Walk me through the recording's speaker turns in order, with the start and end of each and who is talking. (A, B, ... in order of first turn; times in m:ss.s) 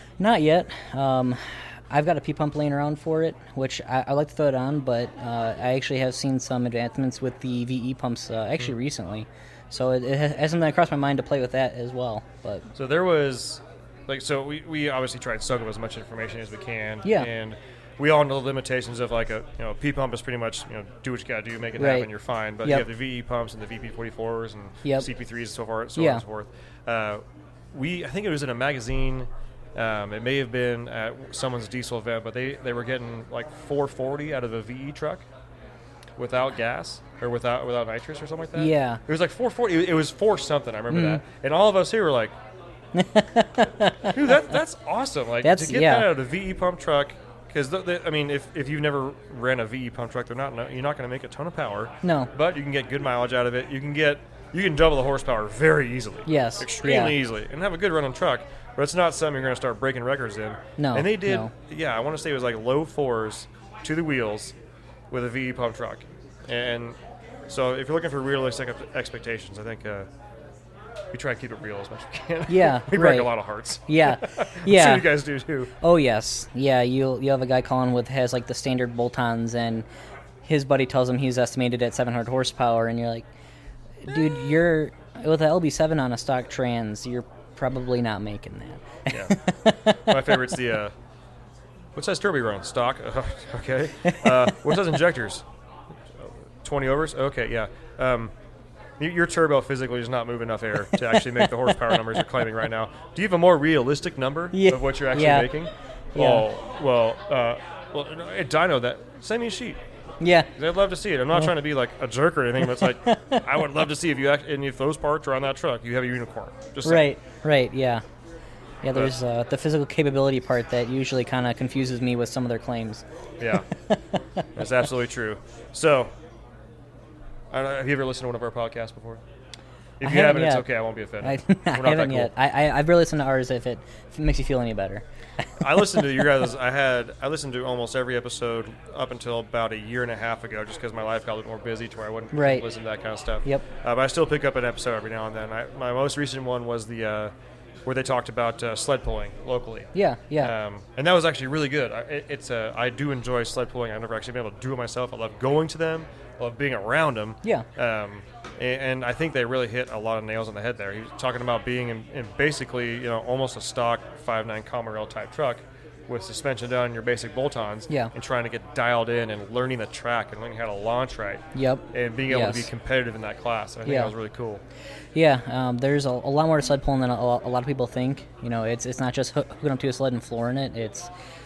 0:00.2-0:12.7 A
0:12.7-0:35.2 B
0:17.0-0:17.3 A
0:21.8-0:22.1 A
0:26.0-0:26.2 A
0:36.2-0:42.3 B
0:38.6-0:39.0 A
0:40.9-0:41.2 A
0:42.9-0:44.2 A
0:44.1-1:04.6 B
0:45.4-0:46.1 A
0:52.0-0:52.3 A
0:56.2-0:57.2 A
1:00.8-1:01.5 A
1:05.1-1:07.0 B
1:07.5-1:10.1 B
1:11.1-1:15.7 B
1:12.5-1:13.3 A
1:13.9-1:15.2 A
1:15.8-1:19.9 A
1:20.4-1:23.3 A
1:24.0-1:30.4 A
1:29.1-1:29.4 B
1:29.9-1:30.9 B
1:32.0-1:35.4 B
1:36.2-1:38.3 B
1:39.0-1:49.8 B
1:41.0-1:42.0 A
1:44.5-1:45.6 A
1:46.1-1:46.5 A
1:50.2-1:50.5 A
1:50.6-1:57.1 B
1:52.6-1:53.4 A
1:56.8-1:58.0 A
1:58.8-2:03.0 A
2:03.4-2:03.7 B
2:04.6-2:06.1 B
2:07.5-2:09.2 B
2:10.0-2:12.3 B
2:10.0-2:10.7 A
2:11.2-2:16.2 A
2:15.6-2:27.3 B
2:22.3-2:22.7 A
2:27.9-2:54.6 B
2:29.9-2:30.6 A
2:51.6-2:52.7 A
2:53.8-2:54.1 A
2:55.1-3:01.1 A